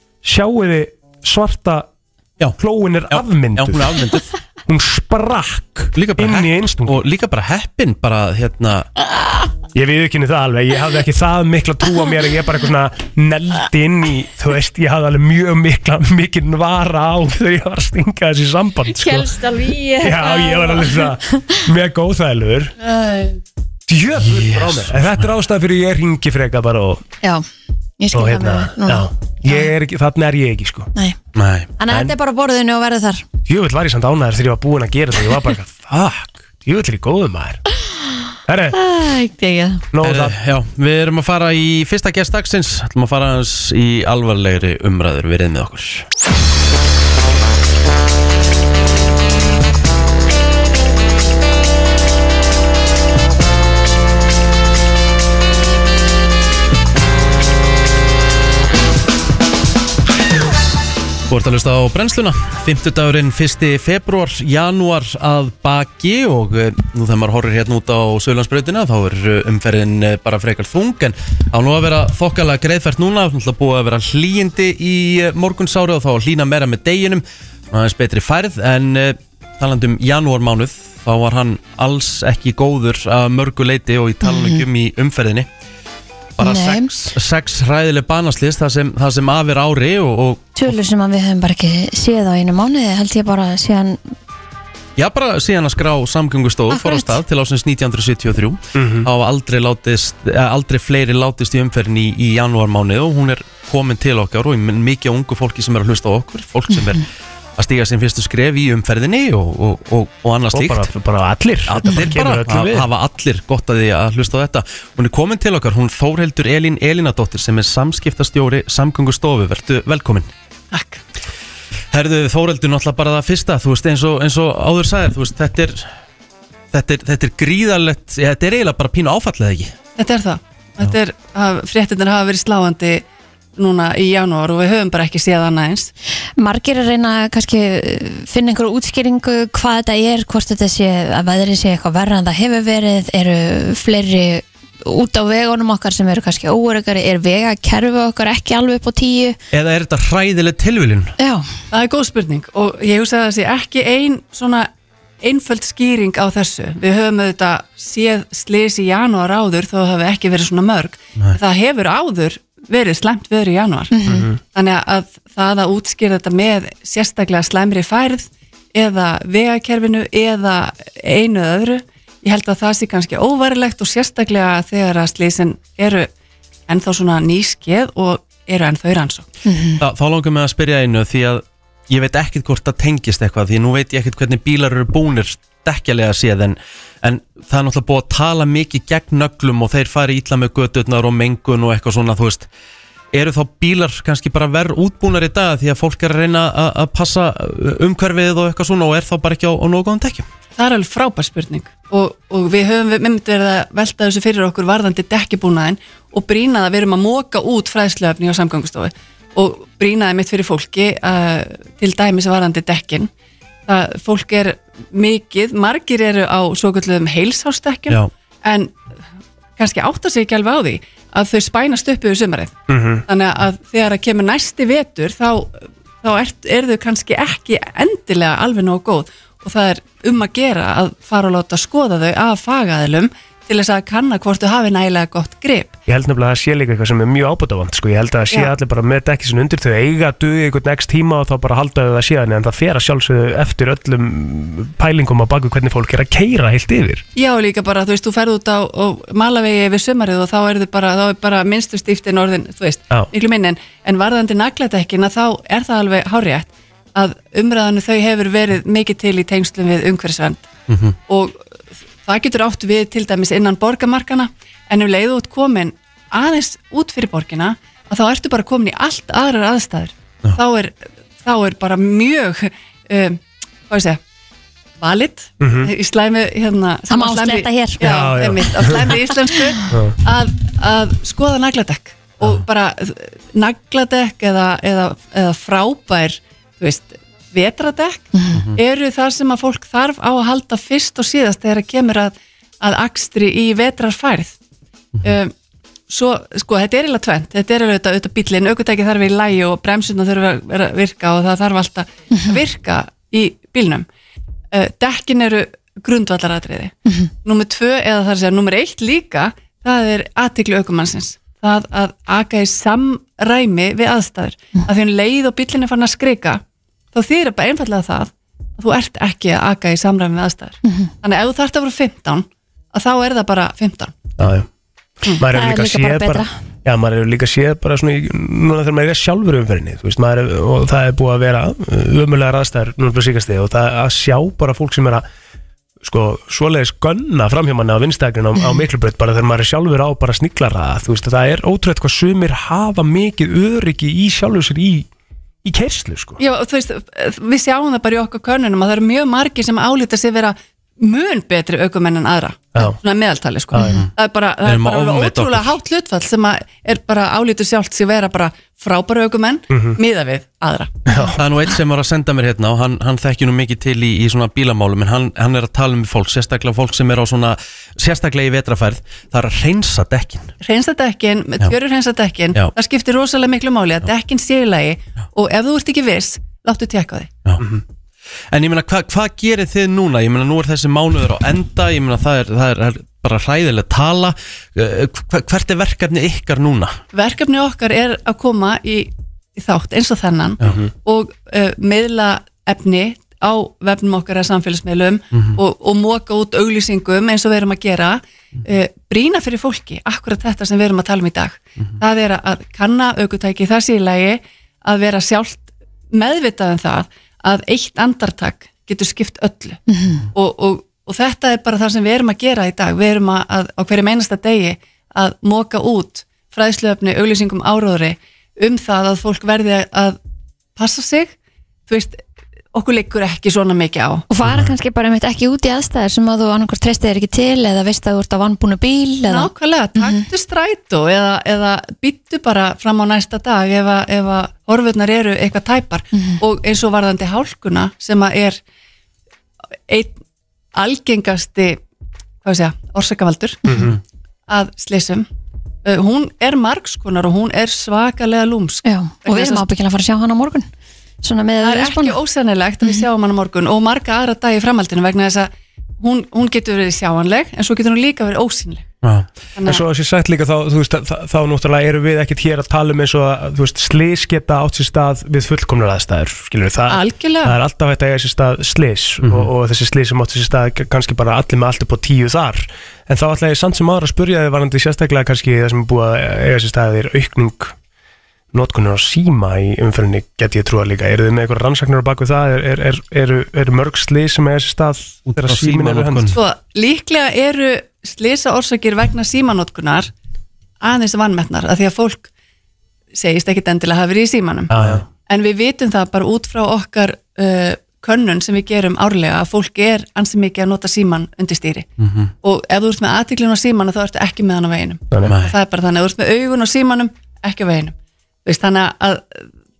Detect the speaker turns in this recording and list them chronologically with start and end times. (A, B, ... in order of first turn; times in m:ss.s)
0:00.2-0:01.9 A
0:02.6-0:04.0 A
0:03.1-0:04.3 B
0:04.6-0:07.1 A
0:06.0-0:08.9 B
0:09.7-0:19.3 A
0:18.9-0:21.6 C
0:20.0-0:22.7 A
0:23.9-0:27.0 A
0:24.2-0:25.2 B
0:28.0-0:29.7 C
0:28.1-0:30.9 A
0:31.3-0:31.7 B
0:31.8-0:33.2 C
0:31.9-0:32.2 A
0:33.5-0:37.6 A
0:38.5-0:38.8 A
0:38.7-0:39.8 C
0:39.9-0:40.3 A
0:40.0-0:46.0 B
1:01.3-1:25.5 B
1:24.2-1:24.6 C
1:26.4-1:30.6 B
1:26.4-1:26.9 C
1:30.6-1:34.0 C
1:35.0-1:47.0 B
1:36.7-1:37.2 C
1:38.7-1:39.1 A
1:46.7-1:47.0 C
1:47.6-1:50.9 B
1:50.5-1:52.9 A
1:51.7-2:00.3 B
2:00.7-2:01.0 D
2:01.9-2:05.9 B
2:06.7-2:09.7 B
2:10.0-2:13.0 D
2:13.6-2:15.9 D
2:16.4-2:29.4 C
2:29.5-2:31.1 B
2:31.2-2:31.5 C
2:31.7-2:34.7 D
2:35.2-2:43.9 D
2:43.9-2:44.3 C
2:44.1-2:44.4 A
2:44.4-2:56.1 D
2:56.7-2:59.2 D
2:59.4-2:59.8 C
2:59.8-3:12.5 B
3:13.1-3:20.3 B
3:20.6-3:33.1 D
3:33.6-3:38.8 D
3:39.6-3:42.5 D
3:42.7-3:43.0 A
3:43.1-3:55.8 D
3:55.9-4:07.0 A
4:07.2-4:20.4 D
4:20.7-4:21.0 B
4:21.1-4:21.4 D
4:22.0-4:34.0 D
4:34.8-4:54.4 D
4:35.4-4:35.7 A
4:36.9-4:37.8 C
4:37.8-4:38.9 A
4:39.1-4:39.4 C
4:39.7-4:40.0 A
4:48.1-4:48.4 C
4:55.0-4:55.3 D
4:55.9-5:03.9 D
5:02.1-5:02.4 C
5:04.5-5:06.7 D
5:06.9-5:07.1 C
5:07.2-5:16.4 D
5:16.9-5:24.0 D
5:20.6-5:20.9 C
5:24.2-5:24.5 A
5:25.1-5:35.0 A
5:25.3-5:26.3 C
5:35.8-5:44.9 A
5:45.4-5:46.2 A
5:46.2-6:00.8 D
5:54.4-5:55.6 B
5:59.5-5:59.8 A
6:00.9-6:01.2 A
6:01.2-6:10.3 B
6:10.4-6:17.1 D
6:18.3-6:26.8 B
6:26.9-6:49.6 D
6:35.1-6:35.4 B
6:49.7-6:50.0 C
6:50.1-7:00.0 D
7:00.6-7:01.1 D
7:01.7-7:04.0 D
7:04.1-7:10.0 C
7:04.2-7:04.5 B
7:09.0-7:18.4 D
7:15.9-7:16.2 C
7:19.7-7:20.0 D
7:20.5-7:21.6 D
7:22.2-7:23.5 D
7:23.5-7:23.7 A
7:24.3-7:25.1 D
7:25.6-7:29.4 D
7:28.6-7:30.5 C
7:31.0-7:32.0 C
7:31.4-7:38.6 D
7:39.4-7:39.6 D
7:39.4-7:57.5 A
7:46.7-7:47.4 D
7:49.0-7:49.3 B
7:58.3-8:06.2 A
8:05.1-8:06.2 B
8:06.1-8:09.9 D
8:10.6-8:12.1 D
8:12.9-8:14.5 D
8:14.5-8:14.8 A
8:15.0-8:21.7 D
8:21.8-8:22.1 B
8:22.2-8:29.2 D
8:25.0-8:25.3 B